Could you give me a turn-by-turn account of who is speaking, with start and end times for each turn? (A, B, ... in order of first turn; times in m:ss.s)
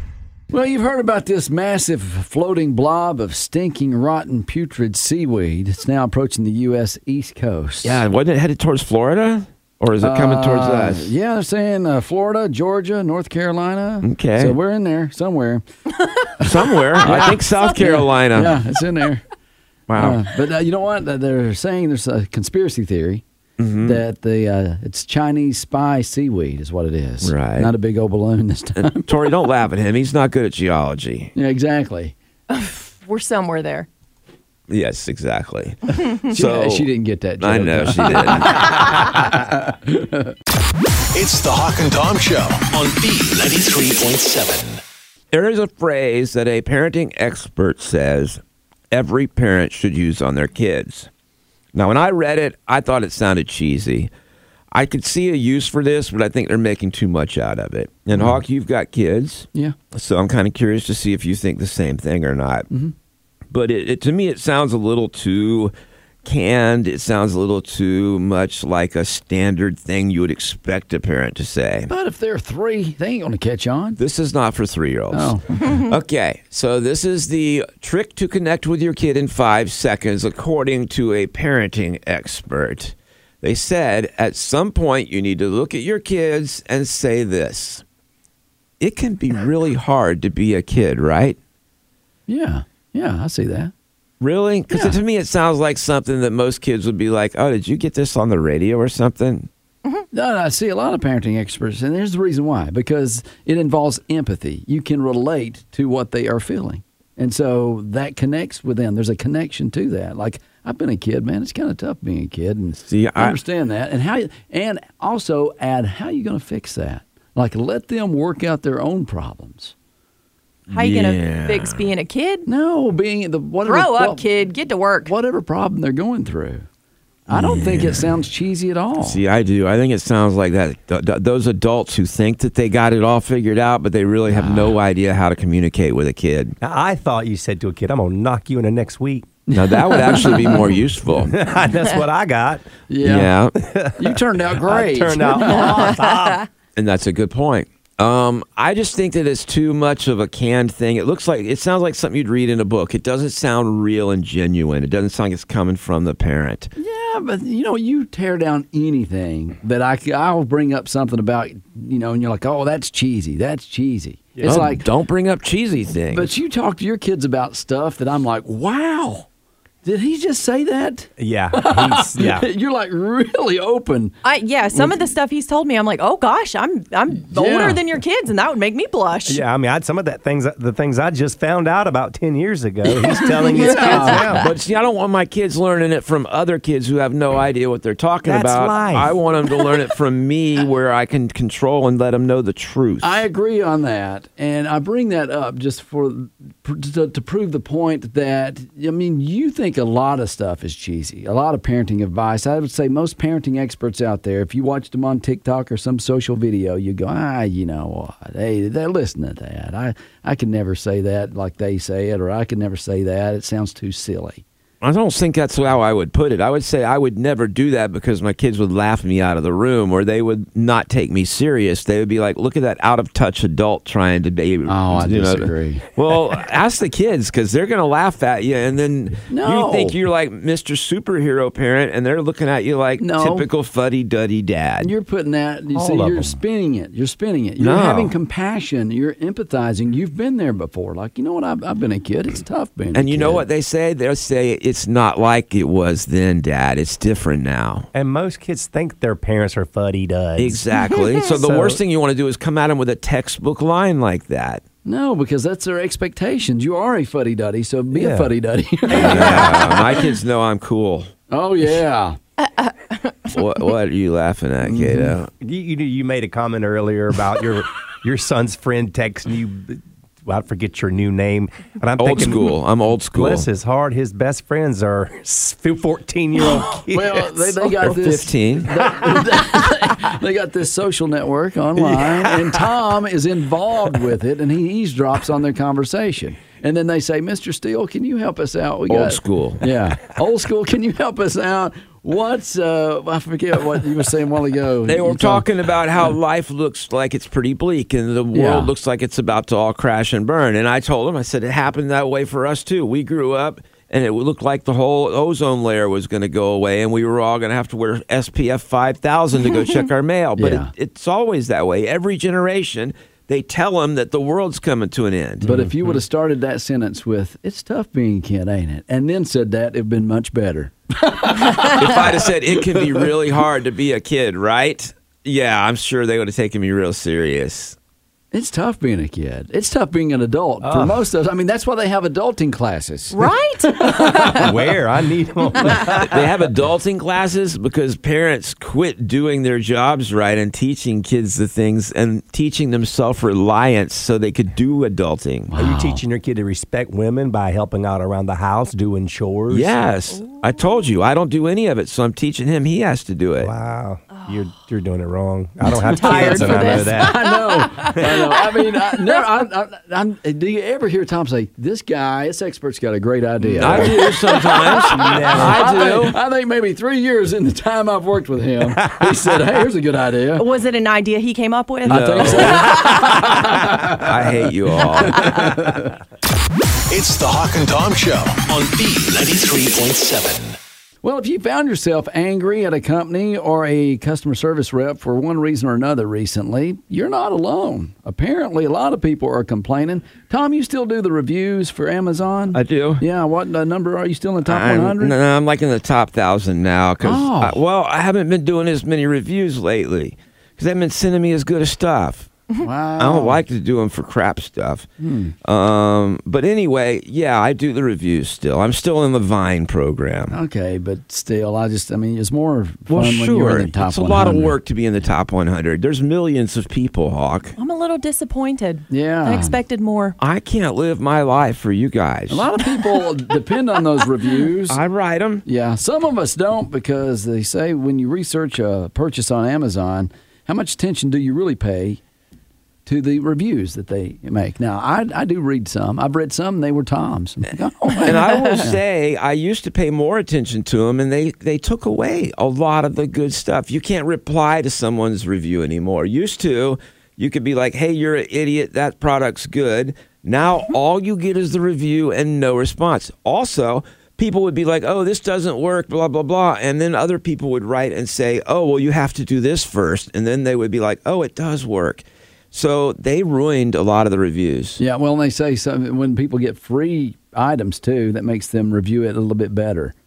0:00.5-0:08.0 A
0:07.8-0:11.1 B
0:10.0-0:15.6 A
0:14.0-0:14.6 B
0:16.2-0:16.5 A
0:16.4-0:18.6 B
0:17.0-0:19.2 A
0:19.9-0:20.2 B
0:19.9-0:23.2 A
0:23.6-0:24.0 B
0:23.8-0:29.2 A
0:27.2-0:27.7 B
0:28.8-0:31.3 B
0:31.4-0:32.2 A
0:32.5-0:33.9 C
0:34.7-0:36.9 B
0:36.2-0:40.4 A
0:37.4-0:38.8 B
0:38.6-0:38.9 C
0:41.1-0:44.8 D
0:45.3-0:48.4 B
0:48.9-0:51.1 B
0:51.7-0:54.1 B
0:54.7-1:02.7 B
1:03.5-1:05.7 B
1:06.2-1:11.9 B
1:11.9-1:14.0 A
1:14.0-1:27.8 B
1:15.1-1:15.6 A
1:28.8-1:31.4 B
1:32.3-1:33.7 A
1:34.2-1:39.5 B
1:40.1-1:59.7 A
1:52.9-1:53.4 B
2:00.7-2:01.9 B
2:00.7-2:02.5 C
2:02.5-2:04.3 A
2:03.6-2:05.1 C
2:05.1-2:06.6 A
2:07.3-2:09.2 A
2:07.3-2:08.1 B
2:09.0-2:16.6 B
2:14.3-2:14.8 A
2:16.6-2:19.3 E
2:19.5-2:20.6 A
2:19.5-2:21.4 B
2:21.2-2:22.7 E
2:22.9-2:23.3 A
2:23.0-2:23.6 B
2:23.6-2:26.4 E
2:24.0-2:25.9 A
2:25.6-2:26.3 C
2:26.8-2:36.7 B
2:36.8-2:44.9 A
2:44.4-2:44.7 E
2:44.4-2:46.3 B
2:46.1-2:49.3 A
2:49.8-2:54.2 A
2:51.2-2:52.5 E
2:54.2-2:59.4 C
2:57.3-2:57.8 A
2:59.3-3:04.5 E
3:03.5-3:04.3 A
3:03.6-3:04.1 C
3:04.3-3:13.2 B
3:08.2-3:09.2 E
3:13.0-3:34.4 A
3:34.8-3:54.9 B
3:44.7-3:45.9 A
3:49.3-3:50.0 A
3:53.0-3:53.5 A
3:54.8-4:03.4 A
3:55.7-3:56.4 E
3:57.6-3:58.2 B
4:02.9-4:07.9 B
4:07.9-4:10.6 E
4:10.4-4:14.6 B
4:11.3-4:11.8 E
4:14.8-4:19.8 A
4:17.9-4:18.3 E
4:18.9-4:19.8 E
4:18.9-4:21.1 B
4:21.3-4:22.2 A
4:22.5-4:23.1 C
4:23.3-4:25.3 B
4:24.7-4:25.1 A
4:25.4-4:32.6 E
4:32.0-4:33.5 B
4:33.1-4:37.9 E
4:36.9-4:55.5 A
4:37.8-4:38.7 B
4:42.0-4:42.4 E
4:48.9-4:49.6 B
4:54.9-5:15.5 B
4:58.3-4:58.7 A
5:10.4-5:10.7 A
5:15.4-5:23.1 A
5:21.7-5:27.8 B
5:28.3-5:34.5 A
5:30.6-5:31.0 E
5:33.1-5:34.5 C
5:34.2-5:36.3 E
5:36.0-5:45.5 B
5:45.5-5:46.0 A
5:45.6-5:49.8 E
5:49.5-5:53.5 B
5:53.4-5:57.2 E
5:55.8-5:59.1 C
5:56.0-6:10.5 A
6:03.4-6:04.0 E
6:03.6-6:06.2 B
6:04.9-6:05.7 E
6:08.8-6:09.2 E
6:10.4-6:13.3 C
6:11.8-6:14.2 A
6:11.9-6:12.9 B
6:13.9-6:15.4 B
6:15.0-6:15.9 A
6:16.9-6:20.6 D
6:21.0-6:35.2 A
6:32.5-6:33.0 B
6:34.4-6:42.3 B
6:37.0-6:37.6 A
6:42.6-6:43.4 A
6:43.0-6:44.9 B
6:45.0-6:45.3 A
6:45.4-6:50.4 B
6:50.3-6:54.6 A
6:52.9-6:57.6 B
6:57.6-7:00.2 C
6:58.9-6:59.6 A
7:00.2-7:02.5 B
7:02.3-7:04.8 A
7:04.7-7:05.4 B
7:05.4-7:12.0 A
7:12.9-7:18.8 A
7:18.0-7:44.8 B
7:44.8-7:49.9 A